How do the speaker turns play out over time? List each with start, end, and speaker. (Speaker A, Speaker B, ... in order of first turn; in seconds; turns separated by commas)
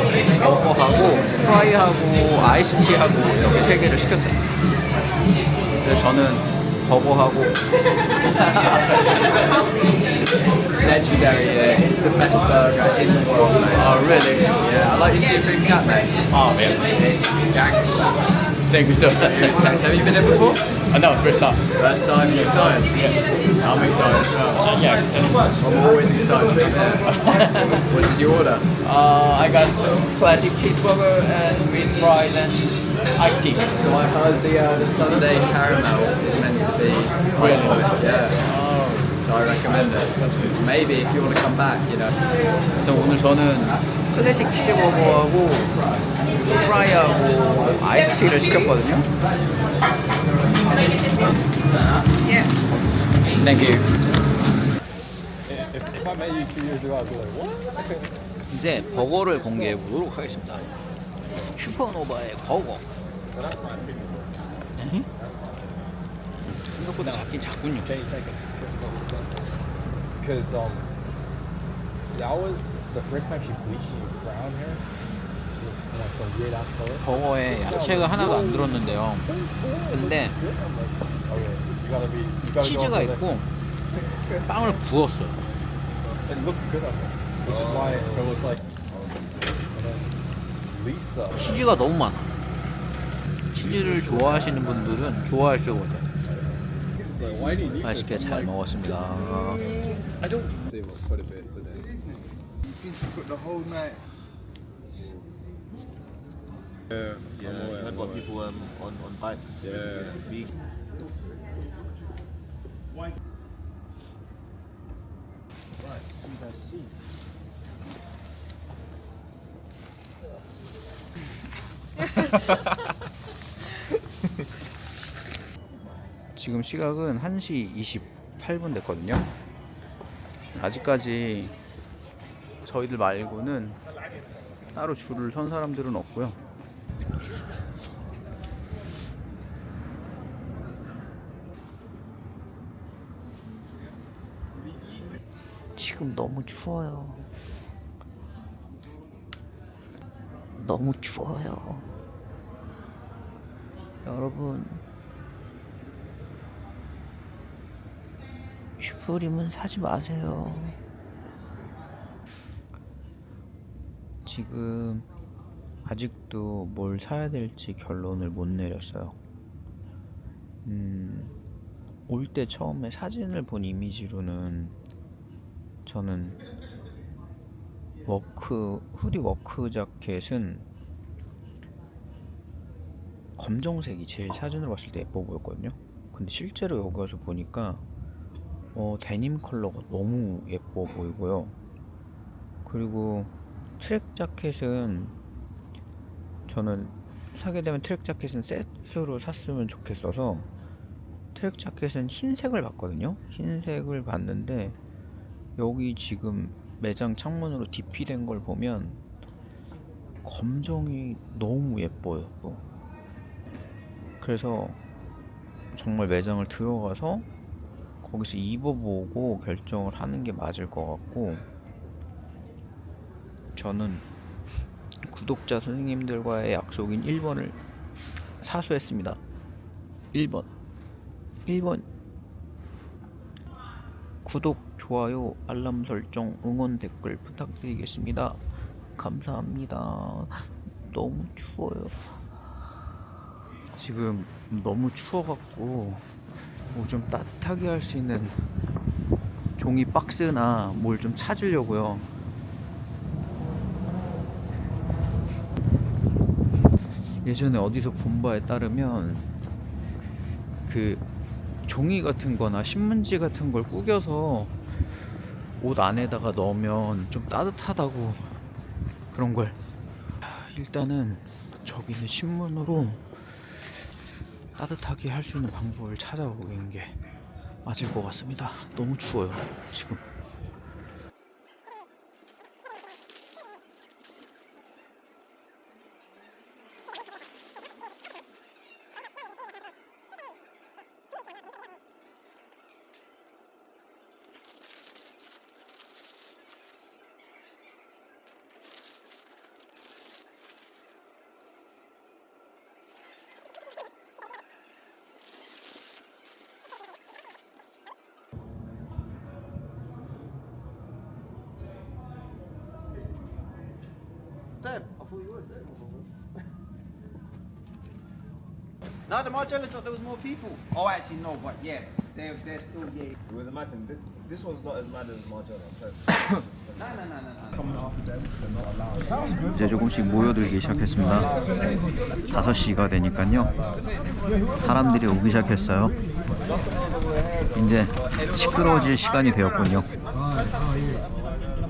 Speaker A: 0.4-4.4, Speaker A: 5.8-7.6, Speaker B: 10.8-16.3, Speaker A: 13.7-14.6, Speaker A: 16.3-16.9, Speaker B: 16.9-18.2, Speaker A: 18.7-20.1, Speaker B: 19.3-20.6, Speaker A: 20.9-21.7, Speaker B: 21.7-24.6, Speaker A: 24.6-25.5, Speaker B: 25.6-27.1, Speaker A: 27.2-27.8, Speaker B: 27.7-28.7, Speaker A: 28.8-32.6, Speaker A: 33.2-33.7, Speaker B: 33.7-38.4, Speaker A: 37.4-39.2, Speaker B: 39.2-42.1, Speaker A: 42.8-45.7, Speaker A: 46.5-49.1, Speaker A: 53.4-53.9, Speaker C: 55.5-58.1, Speaker A: 58.5-60.7, Speaker A: 61.6-62.9, Speaker C: 63.4-64.2, Speaker A: 64.8-65.1, Speaker C: 65.2-65.7, Speaker A: 66.8-67.9, Speaker C: 67.0-69.3, Speaker C: 70.2-70.9, Speaker C: 72.1-74.8, Speaker C: 75.6-83.4, Speaker A: 77.0-79.3, Speaker A: 79.9-80.4, Speaker A: 82.6-83.5, Speaker A: 84.4-85.4, Speaker C: 86.3-88.6, Speaker D: 87.5-88.3, Speaker D: 88.9-89.3, Speaker C: 89.7-91.5, Speaker A: 91.3-92.3, Speaker A: 93.5-96.1, Speaker C: 97.0-98.6, Speaker A: 97.8-99.7, Speaker D: 107.3-110.5, Speaker C: 116.5-116.8, Speaker A: 126.4-129.3, Speaker A: 130.5-131.5, Speaker A: 132.7-133.8, Speaker A: 134.7-136.4, Speaker A: 145.8-147.3, Speaker A: 150.6-151.8, Speaker A: 154.1-154.8, Speaker A: 158.8-160.8, Speaker A: 164.3-165.1, Speaker A: 165.8-169.2, Speaker A: 170.7-171.3, Speaker A: 172.1-174.8, Speaker A: 175.9-176.4, Speaker A: 178.1-180.7, Speaker A: 183.4-187.8, Speaker A: 188.8-191.5, Speaker A: 192.7-195.2, Speaker A: 196.5-200.5, Speaker A: 201.3-204.8, Speaker A: 205.6-209.0, Speaker A: 210.2-212.6, Speaker A: 214.2-214.8, Speaker A: 215.7-217.3, Speaker A: 218.0-221.4, Speaker A: 223.6-224.1, Speaker A: 225.1-227.6, Speaker A: 228.4-229.2, Speaker A: 230.1-230.5, Speaker A: 231.5-231.9, Speaker A: 234.2-238.4, Speaker A: 239.0-242.2, Speaker A: 243.8-246.0, Speaker A: 246.7-248.5, Speaker A: 249.6-252.1, Speaker A: 257.2-259.3, Speaker A: 260.7-261.0, Speaker A: 261.7-264.6, Speaker A: 265.6-268.2, Speaker A: 269.1-269.6, Speaker A: 270.2-273.9, Speaker A: 274.6-277.0, Speaker A: 277.6-280.0, Speaker E: 314.6-315.1, Speaker E: 319.1-323.1, Speaker D: 323.3-326.8, Speaker A: 329.5-331.3, Speaker A: 332.3-333.5, Speaker A: 334.6-335.9, Speaker A: 337.5-339.9